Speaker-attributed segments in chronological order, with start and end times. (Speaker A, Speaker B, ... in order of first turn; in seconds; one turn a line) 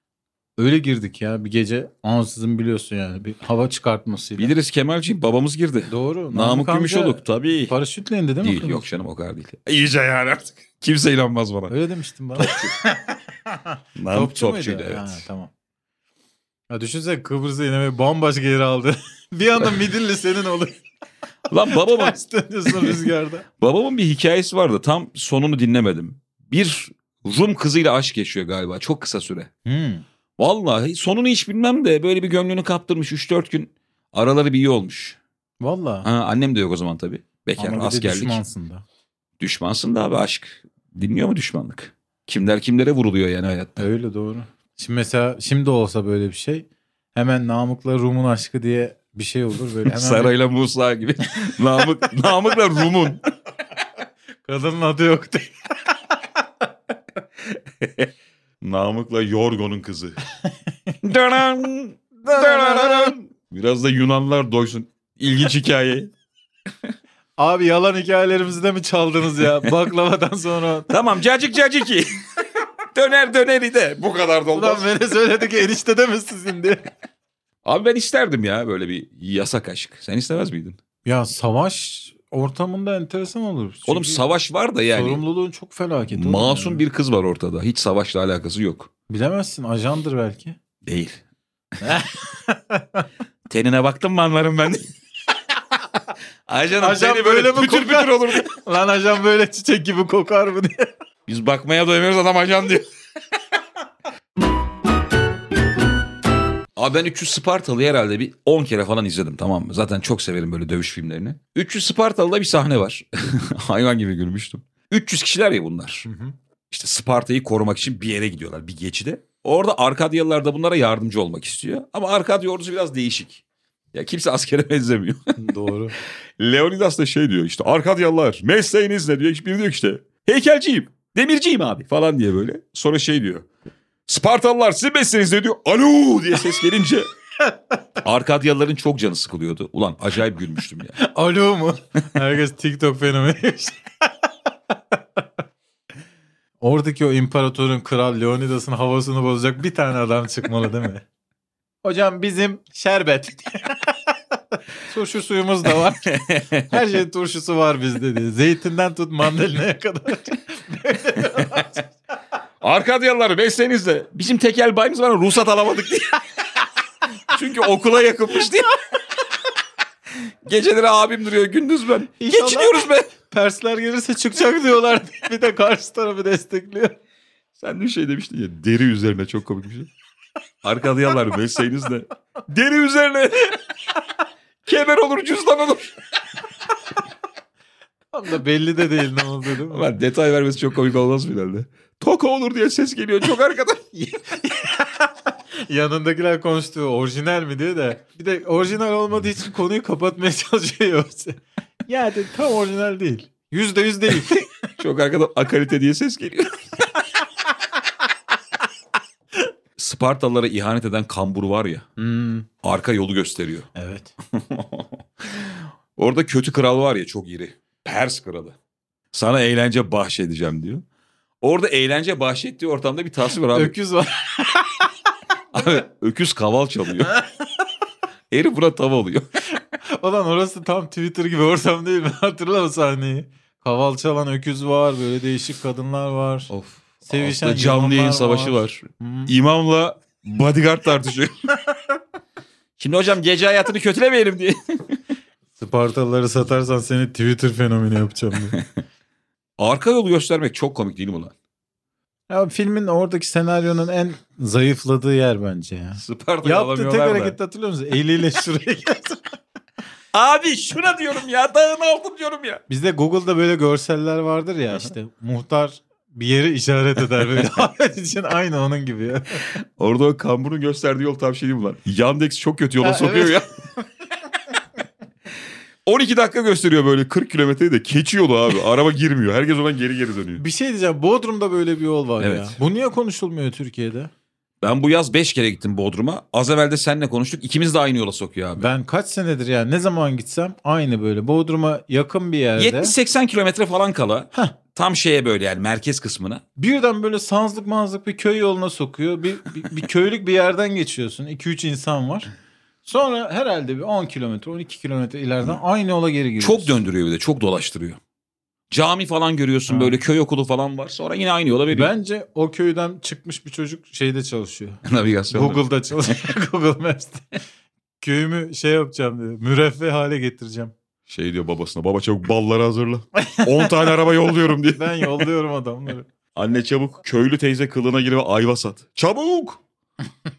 Speaker A: 0.6-4.5
Speaker B: 4.4-7.8
Speaker A: 5.9-8.8
Speaker B: 8.4-11.7
Speaker A: 11.7-15.5
Speaker B: 12.4-12.7
Speaker B: 14.0-15.2
Speaker A: 16.7-20.8
Speaker B: 21.5-22.2
Speaker A: 21.7-23.5
Speaker B: 22.7-29.5
Speaker A: 29.7-30.1
Speaker B: 30.4-35.2
Speaker A: 35.6-36.1
Speaker B: 36.0-38.4
Speaker A: 37.6-38.8
Speaker B: 39.4-43.9
Speaker A: 43.8-50.3
Speaker B: 49.8-53.2
Speaker A: 54.5-56.2
Speaker B: 57.5-58.1
Speaker B: 58.6-60.2
Speaker A: 60.5-60.9
Speaker B: 61.0-66.1
Speaker A: 62.2-63.1
Speaker A: 67.4-71.0
Speaker B: 70.9-74.8
Speaker A: 74.5-76.9
Speaker B: 77.6-80.8
Speaker A: 81.0-84.3
Speaker B: 83.9-85.2
Speaker A: 84.9-86.8
Speaker B: 86.1-88.9
Speaker A: 89.1-90.6
Speaker B: 90.8-91.2
Speaker A: 91.8-93.1
Speaker B: 93.5-94.8
Speaker B: 96.5-98.5
Speaker A: 96.8-100.9
Speaker B: 101.3-102.9
Speaker B: 106.8-116.1
Speaker A: 116.0-116.3
Speaker B: 116.7-123.4
Speaker B: 123.9-125.4
Speaker A: 125.4-126.0
Speaker B: 126.0-133.5
Speaker B: 134.1-137.1
Speaker B: 138.0-141.0
Speaker A: 141.0-144.3
Speaker A: 144.9-145.2
Speaker A: 146.6-151.1
Speaker A: 151.8-161.9
Speaker B: 156.0-156.8
Speaker B: 161.4-161.7
Speaker B: 162.6-166.2
Speaker B: 167.3-168.8
Speaker B: 170.4-173.1
Speaker A: 172.2-177.0
Speaker B: 177.6-179.9
Speaker B: 180.6-183.6
Speaker B: 184.7-185.9
Speaker A: 188.1-189.9
Speaker B: 189.7-194.4
Speaker A: 194.4-204.7
Speaker B: 204.8-206.6
Speaker B: 209.8-211.8
Speaker A: 212.0-212.5
Speaker B: 212.6-213.7
Speaker A: 213.8-214.1
Speaker B: 214.3-218.6
Speaker B: 219.1-220.8
Speaker B: 221.4-223.8
Speaker A: 223.5-224.9
Speaker B: 225.5-227.1
Speaker B: 228.3-229.3
Speaker A: 230.0-236.5
Speaker B: 236.5-241.3
Speaker A: 237.1-239.3
Speaker B: 242.8-245.0
Speaker A: 245.6-248.6
Speaker B: 249.6-251.3
Speaker A: 252.3-259.4
Speaker B: 256.0-257.4
Speaker B: 260.1-262.6
Speaker A: 262.7-269.5
Speaker B: 267.2-267.5
Speaker B: 269.5-273.5
Speaker A: 272.8-273.5
Speaker B: 275.9-280.4
Speaker A: 280.4-284.1
Speaker B: 282.2-282.6
Speaker B: 284.6-288.7
Speaker A: 288.6-292.9
Speaker B: 292.6-296.4
Speaker A: 296.6-302.3
Speaker A: 302.9-306.8
Speaker B: 306.4-308.0
Speaker B: 308.7-311.9
Speaker A: 309.7-310.0
Speaker A: 311.7-317.4
Speaker B: 314.9-316.1
Speaker A: 318.0-320.7
Speaker B: 321.1-325.2
Speaker A: 323.2-323.9
Speaker A: 324.7-326.1
Speaker B: 326.4-329.6